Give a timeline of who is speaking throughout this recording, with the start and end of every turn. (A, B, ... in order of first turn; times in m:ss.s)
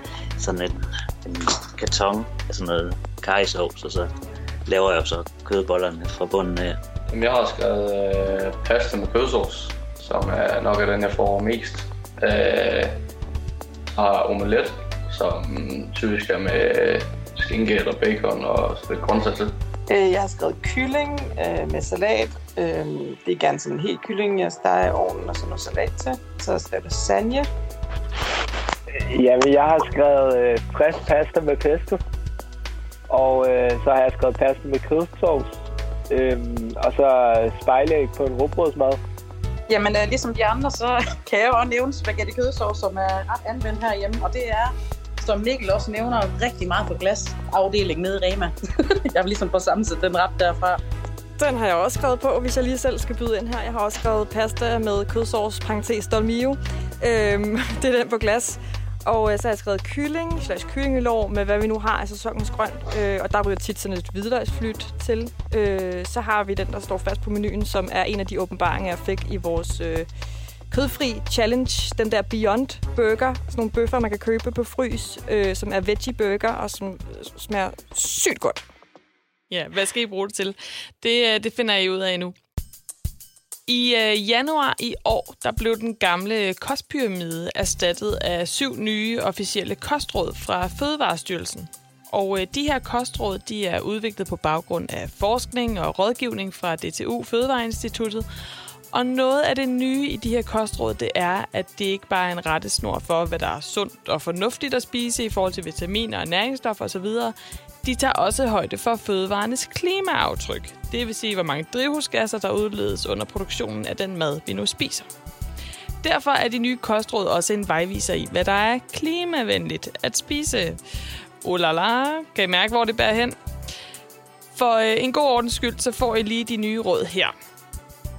0:00.4-0:04.1 A
0:04.6-0:06.8 A
0:07.1-0:13.0 B
0:13.9-0:19.5 B
0:19.9-0:27.5 C
0:29.1-0:32.0 D
0:33.1-0:35.5 D
0:36.1-0:39.0 D
0:39.7-0:48.5 E
0:49.1-0:50.8 E
0:51.4-1:10.0 F
1:10.7-1:18.6 F
1:19.5-1:22.3 G
1:23.7-1:38.2 G
1:38.9-1:55.1 G
1:56.0-2:00.8 G
2:01.4-2:03.4 G
2:04.5-2:07.3 G